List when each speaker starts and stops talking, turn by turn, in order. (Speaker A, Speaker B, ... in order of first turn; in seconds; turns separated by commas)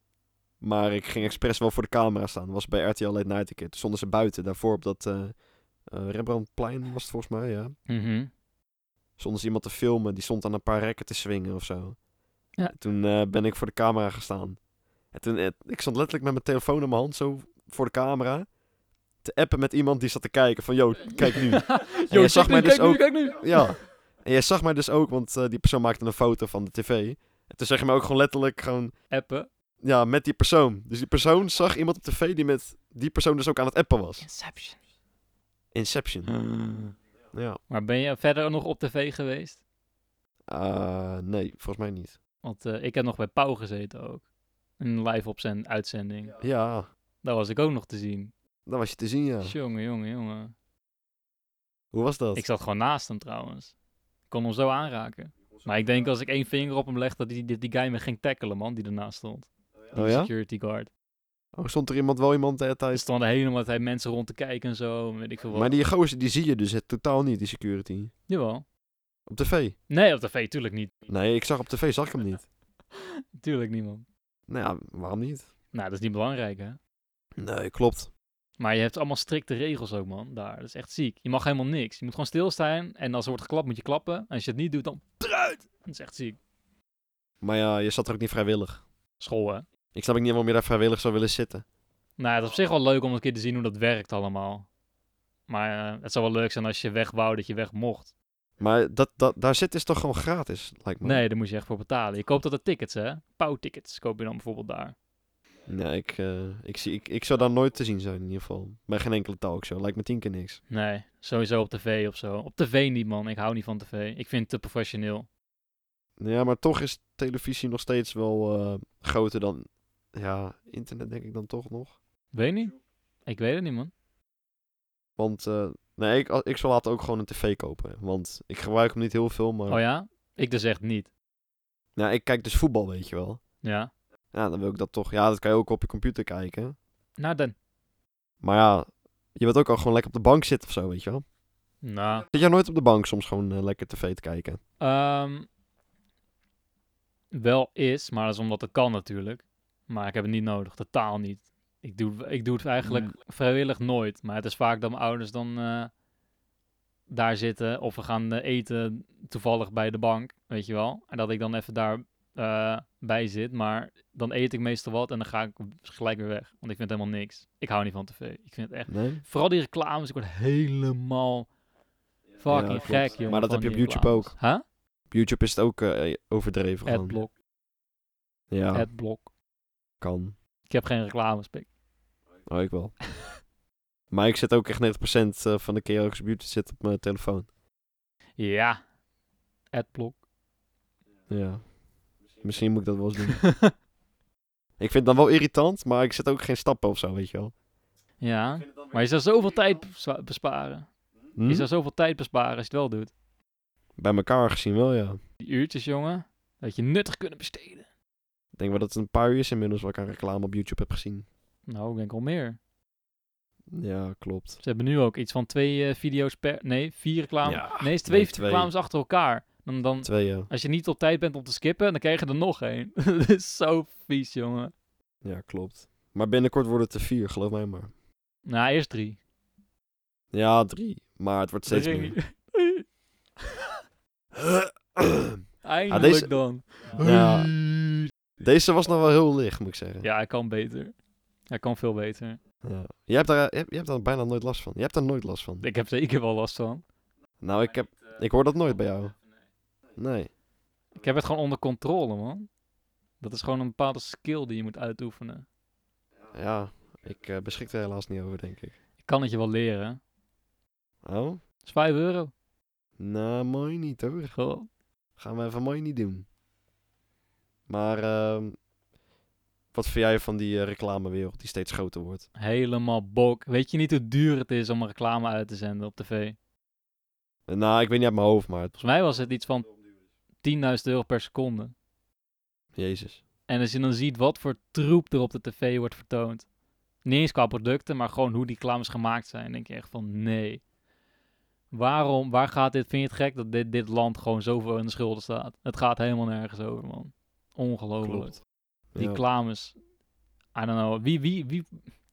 Speaker A: 0.6-7.8, Speaker B: 7.9-8.3, Speaker A: 9.2-12.0, Speaker A: 12.7-14.6, Speaker A: 15.1-18.5, Speaker A: 19.2-28.9, Speaker B: 21.1-23.8, Speaker B: 29.1-29.5, Speaker A: 29.8-34.3, Speaker B: 34.2-34.8, Speaker A: 35.7-36.4, Speaker B: 36.3-36.9, Speaker A: 37.3-37.6, Speaker B: 37.7-39.6, Speaker A: 40.5-42.2, Speaker B: 42.4-44.2, Speaker B: 44.8-46.4, Speaker A: 46.4-46.9, Speaker B: 47.2-48.3, Speaker A: 48.7-49.5, Speaker B: 49.4-50.5, Speaker A: 51.9-52.4, Speaker B: 52.4-53.7, Speaker B: 54.3-60.9, Speaker A: 59.9-60.3, Speaker A: 61.6-63.0, Speaker B: 62.9-65.7, Speaker A: 65.5-68.1, Speaker B: 68.3-68.6, Speaker A: 69.3-69.8, Speaker B: 69.9-70.9, Speaker A: 71.1-72.5, Speaker B: 72.9-74.0, Speaker A: 74.5-75.5, Speaker B: 75.7-76.8, Speaker A: 77.4-78.1, Speaker B: 78.6-86.4, Speaker A: 87.4-88.8, Speaker B: 89.2-89.7, Speaker A: 89.9-91.6, Speaker B: 92.2-94.7, Speaker B: 95.5-98.1, Speaker A: 98.6-101.2, Speaker B: 101.0-104.9, Speaker A: 105.7-110.6, Speaker B: 110.7-115.3, Speaker A: 116.2-122.0, Speaker B: 122.3-122.8, Speaker B: 123.3-123.9, Speaker A: 125.2-129.8, Speaker B: 129.7-131.1, Speaker A: 131.9-133.4, Speaker B: 133.6-133.9, Speaker A: 134.3-136.8, Speaker B: 137.2-137.6, Speaker A: 138.4-141.2, Speaker B: 141.8-142.3, Speaker A: 142.3-144.6, Speaker B: 144.8-145.5, Speaker B: 147.3-155.9, Speaker A: 152.8-153.1, Speaker B: 157.1-171.5, Speaker A: 168.9-169.2, Speaker B: 172.4-174.6, Speaker A: 172.5-174.3, Speaker A: 175.1-177.2, Speaker B: 176.9-177.3, Speaker A: 178.5-178.9, Speaker B: 178.7-179.3, Speaker A: 180.0-180.3, Speaker B: 180.7-181.7, Speaker A: 182.5-182.9, Speaker A: 184.1-187.5, Speaker B: 188.4-188.8, Speaker B: 189.7-190.2, Speaker A: 191.3-191.6, Speaker A: 192.4-193.4, Speaker B: 193.2-193.7, Speaker A: 194.8-197.5, Speaker B: 198.2-200.9, Speaker A: 201.4-201.7, Speaker B: 201.4-203.1, Speaker A: 204.0-205.2, Speaker B: 205.4-207.9, Speaker A: 208.6-211.3, Speaker B: 211.7-212.6, Speaker A: 213.7-214.6, Speaker B: 214.6-224.7, Speaker A: 217.4-218.7, Speaker A: 220.0-220.5, Speaker A: 225.2-227.9, Speaker B: 228.4-229.2, Speaker A: 230.3-232.1, Speaker B: 231.7-232.8, Speaker B: 233.4-233.8, Speaker A: 234.3-236.4, Speaker B: 235.6-238.1, Speaker A: 237.0-237.5, Speaker A: 238.4-240.1, Speaker B: 240.0-240.9, Speaker B: 241.5-242.4, Speaker A: 242.6-245.7, Speaker B: 245.6-246.8, Speaker A: 247.4-249.1, Speaker A: 250.0-250.3, Speaker B: 250.9-252.5, Speaker B: 253.2-255.4, Speaker A: 256.3-258.8, Speaker B: 259.0-260.0, Speaker A: 261.0-261.4, Speaker B: 261.6-262.3, Speaker A: 263.0-264.3, Speaker B: 264.4-264.7, Speaker A: 265.2-266.3, Speaker A: 267.7-268.6, Speaker A: 269.7-272.3, Speaker B: 272.4-276.4, Speaker A: 277.5-278.7, Speaker B: 278.8-279.7, Speaker B: 280.4-281.7, Speaker A: 282.8-283.2, Speaker B: 283.5-286.4, Speaker B: 287.0-290.6, Speaker B: 291.7-298.4, Speaker A: 298.0-298.4, Speaker A: 298.9-299.2, Speaker B: 298.9-299.8, Speaker B: 300.6-301.8